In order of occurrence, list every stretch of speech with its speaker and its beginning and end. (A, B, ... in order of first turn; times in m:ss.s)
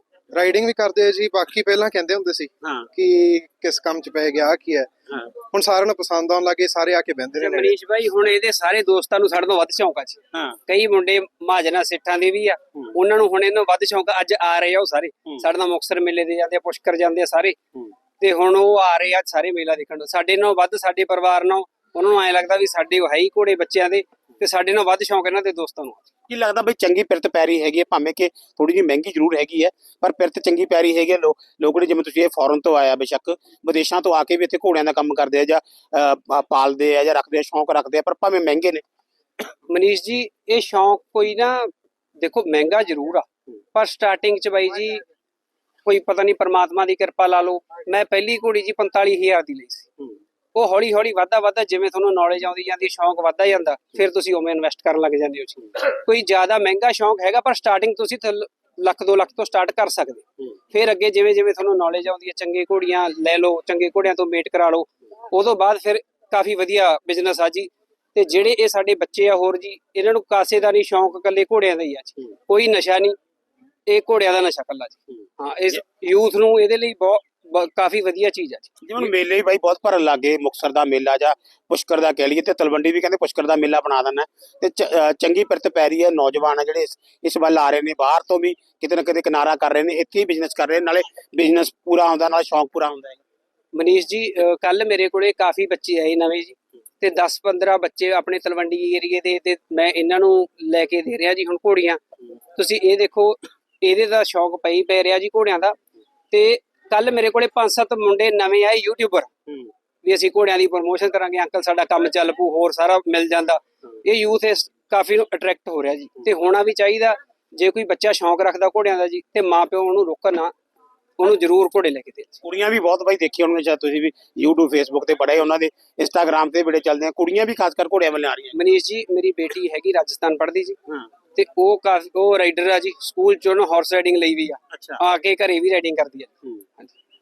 0:00.3-0:04.9 A
0:02.6-0:02.9 B
0:05.5-0:07.7 A
0:07.3-0:17.6 C
0:10.3-0:10.6 B
0:18.2-0:26.1 C
0:26.3-0:38.8 B
0:39.7-0:41.7 C
0:42.2-0:45.0 C
0:45.8-0:49.9 C
0:50.5-1:13.1 C
1:13.9-1:19.1 C
1:18.8-1:33.2 B
1:33.7-1:42.0 C
1:42.6-1:45.8 C
1:46.3-1:49.3 C
1:50.0-2:00.5 C
2:01.2-2:02.4 C
2:02.4-2:08.6 B
2:08.5-2:10.8 C
2:11.3-2:16.9 C
2:14.7-2:15.0 B